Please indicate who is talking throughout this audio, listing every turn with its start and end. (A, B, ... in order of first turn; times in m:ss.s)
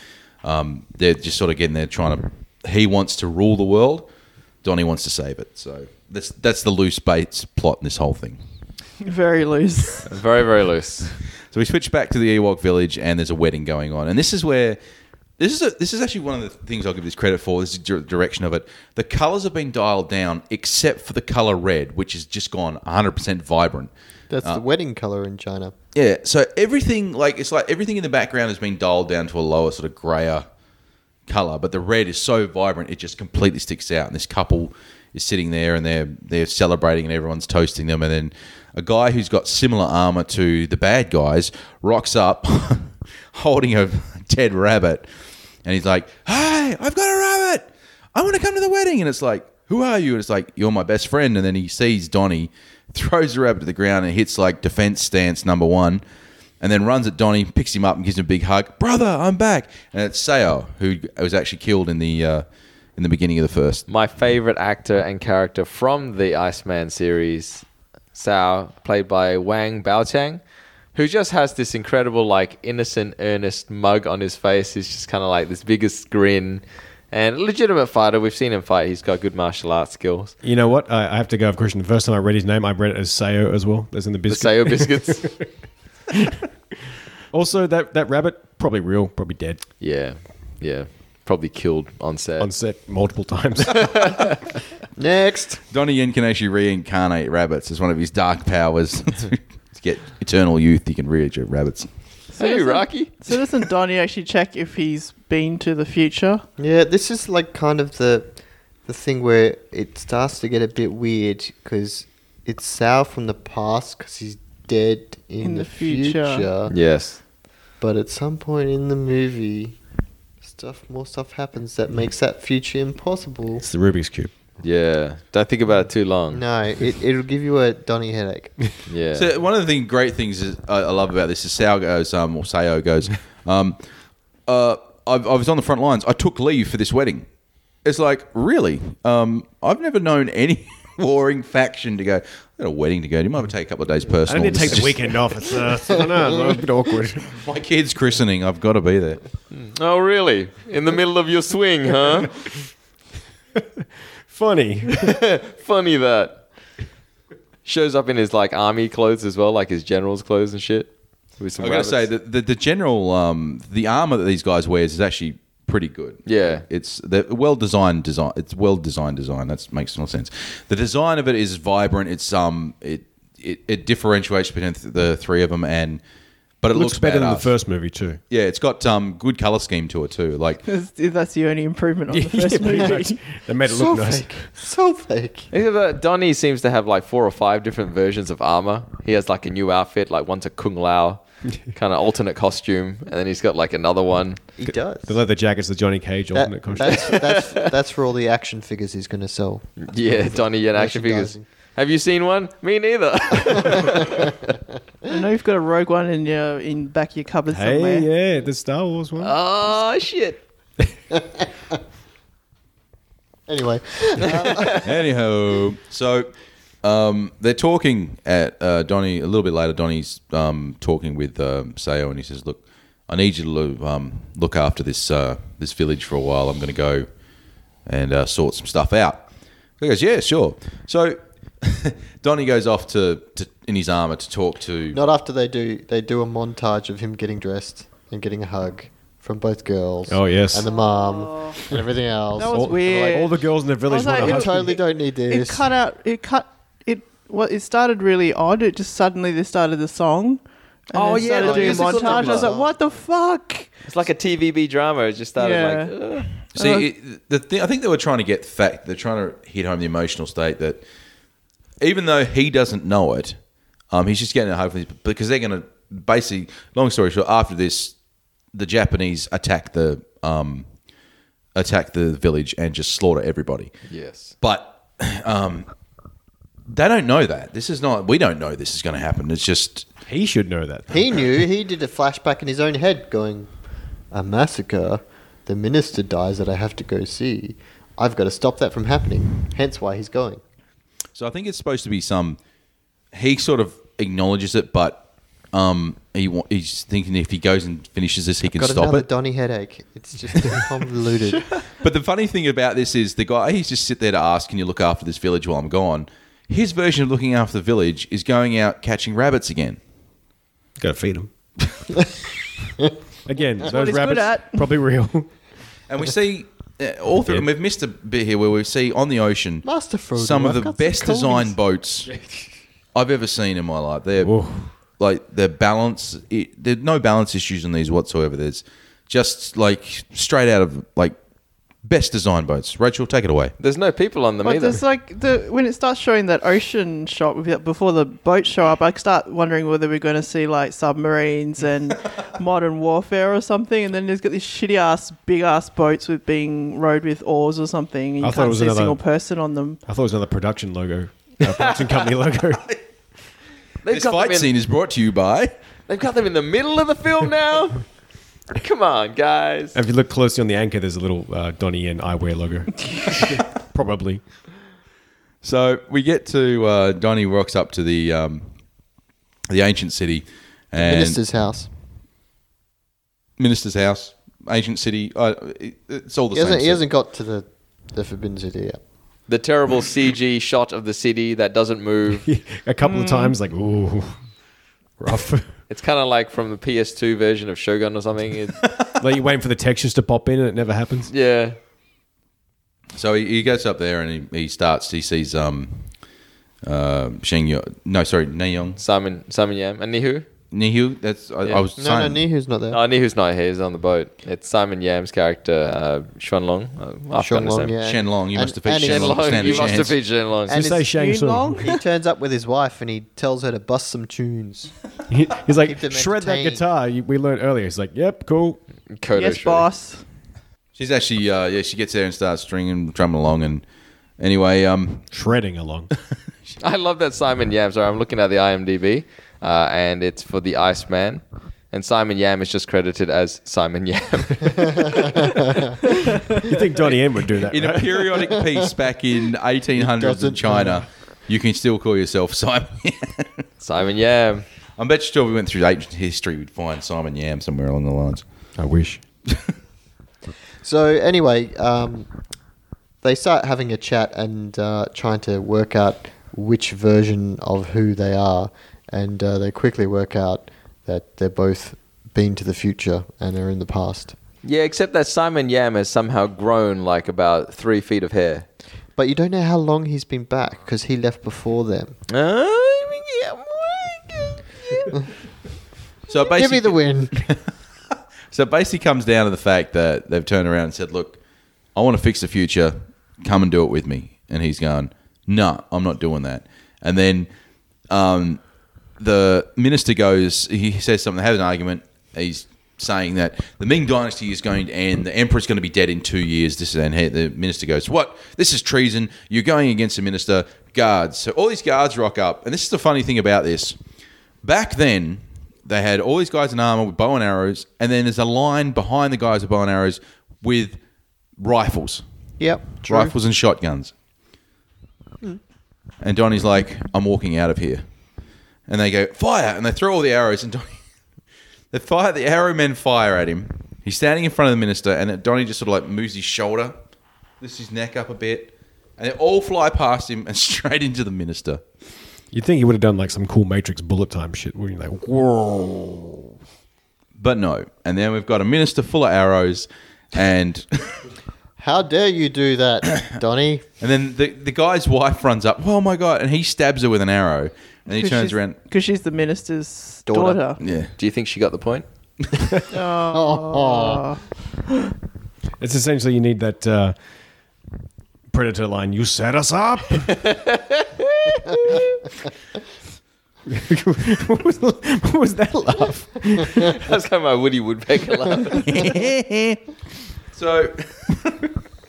0:00.4-0:04.1 A
0:04.6-0:08.4 A
0:09.0-0:10.1 B
0:10.1-0:11.1 C
0:11.5-0:14.8 A
0:15.4-0:23.9 A
0:24.3-0:25.8 D
0:25.9-0:30.5 A
0:31.3-0:45.1 A
0:45.6-0:56.0 A
0:56.6-1:02.4 A
1:03.0-1:03.8 A
1:03.9-1:10.4 C
1:10.9-1:20.4 C
1:20.4-1:25.4 E
1:24.3-1:25.3 C
1:27.3-1:29.6 E
1:29.8-1:32.5 C
1:32.4-1:34.2 E
1:33.9-1:34.2 C
1:35.0-1:35.6 D
1:35.7-1:41.9 A
1:42.3-1:46.4 B
1:42.4-1:43.1 C
1:46.6-1:56.7 D
1:55.4-1:56.5 B
1:56.7-1:57.2 C
1:57.8-1:59.8 D
2:00.4-2:03.6 D
2:03.6-2:04.3 E
2:04.6-2:06.4 C
2:06.3-2:08.8 D
2:08.9-2:09.3 C
2:09.2-2:13.8 A
2:14.5-2:17.3 A
2:17.8-2:25.2 A
2:24.3-2:27.4 E
2:27.3-2:29.2 A
2:29.5-2:32.3 C
2:33.8-2:35.1 E
2:35.0-2:36.4 C
2:37.6-2:42.1 C
2:41.6-2:56.0 A
2:46.3-2:46.6 C
2:56.6-2:57.5 A
2:56.7-2:58.2 E
2:58.3-3:00.6 A
3:00.7-3:03.2 B
3:02.1-3:04.5 E
3:03.6-3:05.5 D
3:05.5-3:14.4 C
3:14.6-3:15.1 D
3:14.6-3:17.2 E
3:16.3-3:21.4 D
3:16.9-3:17.5 C
3:19.8-3:24.3 C
3:25.1-3:28.1 B
3:27.5-3:29.4 E
3:29.2-3:30.4 C
3:33.5-3:34.8 D
3:34.2-3:34.8 C
3:34.8-3:36.3 A
3:36.8-3:47.1 A
3:47.9-3:49.3 A
3:49.8-3:55.0 A
3:54.9-4:03.3 D
4:00.1-4:00.6 E
4:01.2-4:01.5 B
4:02.4-4:03.3 B
4:02.5-4:04.8 E
4:03.9-4:13.7 B
4:04.1-4:05.7 D
4:10.9-4:12.5 C
4:11.3-4:12.8 D
4:13.9-4:16.3 C
4:15.4-4:16.9 B
4:16.6-4:20.8 A
4:21.8-4:23.4 A
4:23.9-4:28.0 A
4:28.5-4:30.7 A
4:31.6-4:33.7 A
4:33.9-4:34.3 C
4:34.4-4:35.7 A
4:36.7-4:39.9 A
4:40.1-4:41.3 E
4:40.9-4:43.5 D
4:44.1-4:50.4 D
4:51.2-4:52.4 A
4:53.1-4:59.1 A
4:58.5-5:01.5 D
5:01.8-5:09.8 A
5:10.8-5:11.8 E
5:13.3-5:15.4 E
5:13.6-5:14.7 B
5:15.9-5:22.1 A
5:19.6-5:21.5 D
5:22.9-5:24.4 A
5:24.2-5:24.7 E
5:25.0-5:31.2 A
5:31.8-5:33.5 A
5:33.6-5:34.8 C
5:34.4-5:49.8 B
5:48.2-5:49.0 E
5:49.8-5:52.7 E
5:53.8-5:54.5 C
5:53.9-5:55.5 A
5:55.9-5:57.8 C
5:58.6-5:59.8 C
5:59.7-6:04.2 E
6:05.4-6:08.5 A
6:09.5-6:11.2 A
6:10.8-6:11.7 D
6:13.4-6:16.8 A
6:16.3-6:18.8 D
6:19.3-6:22.2 C
6:22.2-6:24.3 E
6:22.8-6:23.4 B
6:25.0-6:25.5 E
6:25.7-6:28.6 C
6:29.0-6:31.1 E
6:31.1-6:31.6 C
6:32.9-6:35.9 A
6:36.6-6:38.8 A
6:38.8-6:40.3 C
6:40.5-6:42.2 A
6:41.8-6:42.8 D
6:42.7-6:47.7 C
6:47.2-6:49.8 D
6:47.8-6:50.0 A
6:48.8-6:50.6 C
6:50.5-6:50.9 D
6:50.5-6:51.7 E
6:50.9-6:51.8 B
6:51.6-6:54.7 D
6:55.1-6:58.6 E
6:55.5-6:56.6 D
6:58.9-6:59.7 C
6:59.2-7:00.0 B
7:00.8-7:03.6 A
7:04.2-7:05.1 A
7:05.1-7:05.9 E
7:06.6-7:15.4 C
7:16.4-7:17.9 E
7:17.5-7:23.4 A
7:19.8-7:20.8 D
7:23.6-7:24.4 C
7:24.8-7:28.2 A
7:28.6-7:29.0 E
7:30.6-7:32.1 D
7:33.0-7:44.2 D
7:44.4-7:48.5 C
7:49.0-7:52.0 D
7:52.1-7:54.9 C
7:56.1-7:57.4 A
7:56.2-7:57.3 D
7:58.3-8:01.2 A
8:01.8-8:07.3 A
8:07.9-8:08.4 A
8:09.0-8:23.8 A
8:24.4-8:30.8 A
8:31.4-8:32.0 A
8:32.4-8:33.1 D
8:32.8-8:33.9 A
8:36.0-8:37.8 A
8:38.7-8:40.8 A
8:41.7-8:46.8 A
8:47.4-8:51.6 A
8:52.3-8:56.3 E
8:57.2-9:01.0 A
9:01.6-9:03.7 D
9:03.8-9:08.6 A
9:07.9-9:10.6 B
9:10.1-9:10.4 D
9:10.6-9:10.9 A
9:11.0-9:11.9 C
9:12.7-9:14.9 B
9:13.1-9:14.0 D
9:15.6-9:17.0 E
9:18.3-9:20.3 E
9:20.1-9:22.0 C
9:23.5-9:26.8 E
9:26.6-9:28.6 C
9:28.6-9:29.6 A
9:30.3-9:31.5 A